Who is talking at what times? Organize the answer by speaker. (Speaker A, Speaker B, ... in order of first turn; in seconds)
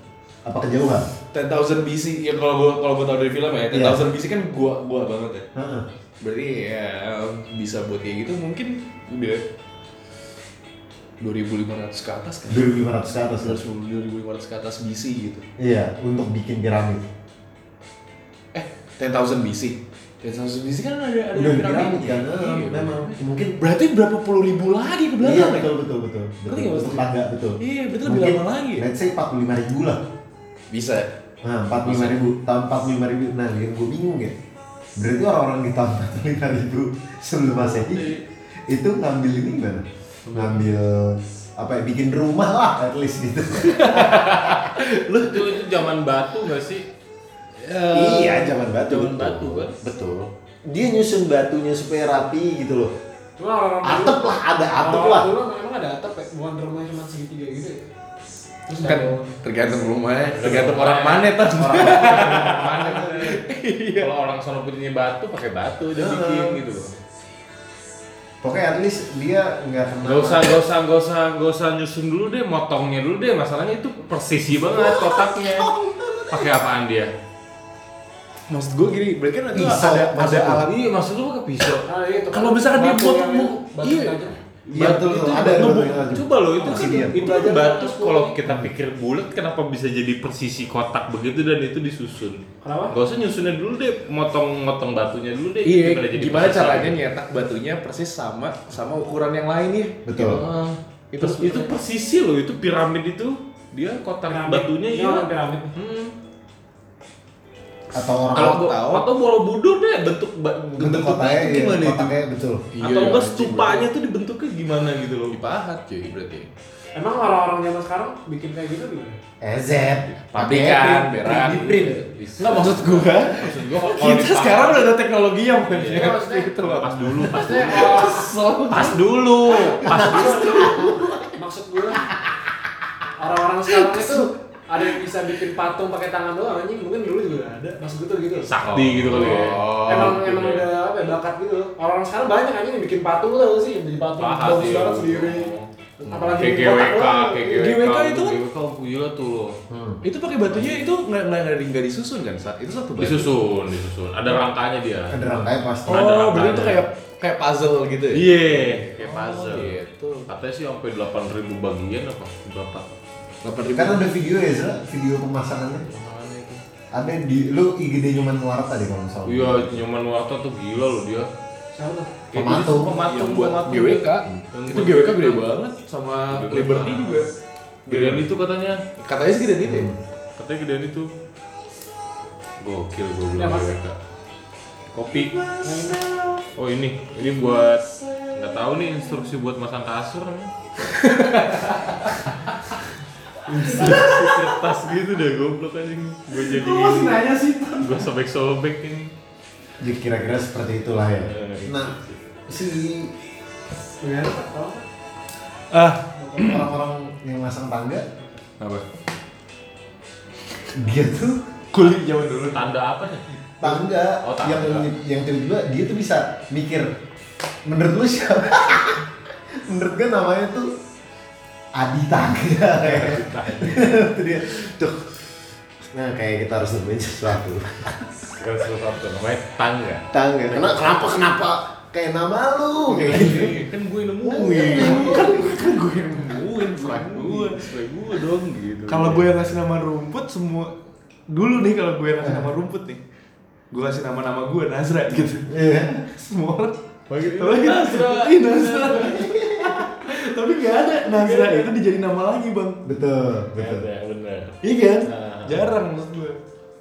Speaker A: 0.4-1.1, 3.7-4.0, 5.5-5.8, 12.5-13.6, 15.6-17.0, 21.3-23.6, 25.2-30.0, 31.4-34.3, 35.0-38.1, 38.7-44.1, 47.9-50.0, 50.7-52.9, 53.8-55.3, 65.9-66.6, 68.4-70.6, 74.6-76.5, 79.5-80.7, 84.7-87.2, 100.0-100.4, 107.9-108.7, 110.8-112.6, 119.4-120.8, 149.7-150.0, 155.1-155.9, 163.7-165.8, 166.9-169.8, 172.3-172.9, 179.6-180.0, 199.8-201.9, 202.5-203.1, 206.4-208.0, 210.8-211.4, 213.6-216.9, 217.6-220.7, 221.7-225.0, 225.9-228.0, 230.1-233.5, 234.2-235.8, 245.5-246.1, 249.0-249.9, 252.8-253.8
Speaker B: 1.3-5.5, 6.2-9.4, 11.2-12.7, 13.4-15.4, 18.5-25.7, 26.4-28.9, 30.7-31.1, 31.8-32.2, 43.6-45.6, 47.6-48.6, 58.8-64.1, 78.5-80.8, 82.3-85.9, 95.6-100.4, 101.1-101.7, 108.3-109.0, 112.7-113.9, 115.3-116.5, 120.3-131.3, 133.7-134.3, 138.7-140.2, 147.6-148.4, 150.0-153.3, 155.8-160.3, 163.4-164.1, 172.3-177.3, 177.9-178.3, 179.0-179.9, 190.9-192.2, 193.7-194.6, 196.3-198.1, 205.7-206.7, 208.6-208.8, 211.7-212.7, 233.1-233.7, 234.6-237.7, 238.9-240.7, 241.3-243.0, 243.7-245.5, 246.1-252.8, 254.6-256.4
Speaker C: 37.5-38.2, 40.3-40.6, 44.0-46.8, 48.8-50.2, 60.2-63.4, 64.0-66.9, 70.0-75.7, 76.3-77.1, 80.6-81.8, 84.7-92.4, 92.9-97.0, 100.2-106.1, 108.3-112.1, 112.8-115.4, 120.3-125.0, 125.7-130.9, 138.5-140.7, 144.2-149.6, 150.5-150.8, 153.0-156.8, 158.1-162.8, 165.9-166.6, 169.2-171.3, 172.3-175.5, 176.3-177.2, 177.9-178.8, 180.4-181.1, 182.6-183.9, 184.9-185.5, 186.5-190.5, 193.7-197.2, 197.8-199.1, 201.2-202.2, 212.5-213.2, 214.2-214.9, 222.8-223.9, 228.3-231.0, 232.9-235.2, 236.8-239.6, 247.1-249.3, 251.0-251.7, 253.6-255.7
Speaker D: 53.4-57.9, 58.7-59.4, 81.8-84.3, 86.6-88.4, 92.6-93.0, 104.3-105.7, 116.9-119.2, 125.8-126.5, 127.3-128.3, 129.9-130.8, 131.3-132.1, 133.2-138.5, 139.7-147.8, 171.8-172.3, 183.3-183.7, 185.6-186.0, 193.4-194.1, 204.0-204.8, 206.2-206.4